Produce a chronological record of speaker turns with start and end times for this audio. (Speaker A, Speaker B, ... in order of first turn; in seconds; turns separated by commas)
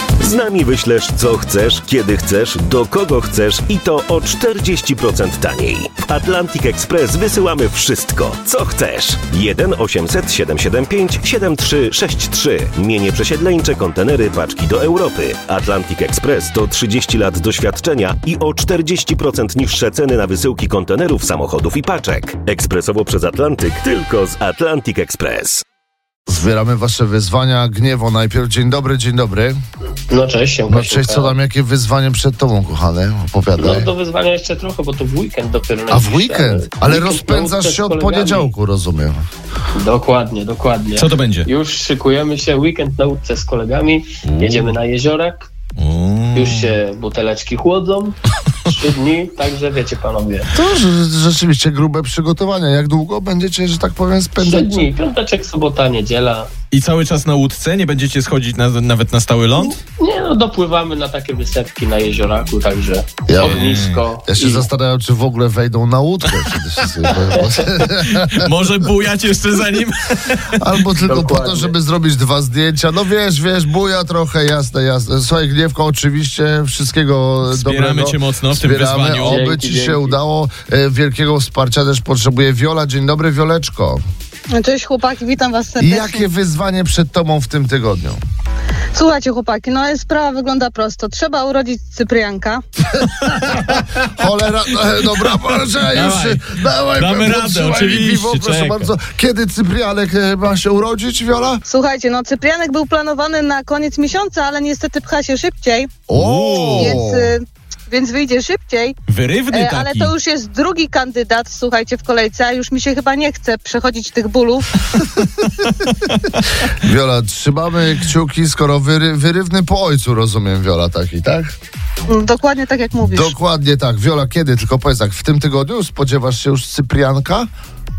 Speaker A: 0.2-25.6, Speaker B: 26.3-29.6, Speaker C: 30.1-31.3, Speaker B: 30.7-33.9, Speaker C: 33.6-38.5, Speaker B: 35.9-39.2, Speaker C: 39.7-45.5, Speaker D: 41.0-41.5, Speaker D: 44.2-44.8, Speaker D: 45.8-46.8, Speaker C: 46.3-48.1, Speaker C: 48.7-50.5, Speaker B: 50.5-54.9, Speaker C: 54.4-56.5, Speaker D: 56.7-59.8, Speaker C: 59.6-64.7, Speaker B: 63.3-63.7, Speaker D: 63.4-64.0, Speaker B: 64.2-68.5, Speaker C: 67.3-67.6, Speaker D: 67.8-70.6, Speaker B: 70.6-84.0, Speaker C: 71.0-71.7, Speaker D: 77.5-79.4, Speaker C: 79.2-80.2, Speaker E: 84.5-86.2, Speaker B: 85.8-88.2, Speaker E: 88.9-92.6, Speaker B: 93.1-101.6, Speaker D: 93.2-93.9, Speaker D: 95.3-98.9, Speaker E: 101.7-105.9, Speaker B: 106.1-107.3, Speaker D: 106.1-107.0, Speaker E: 106.7-109.0, Speaker D: 109.1-110.1, Speaker E: 109.5-115.0, Speaker D: 115.5-116.1, Speaker B: 116.7-121.5, Speaker E: 122.1-123.3, Speaker B: 123.0-127.5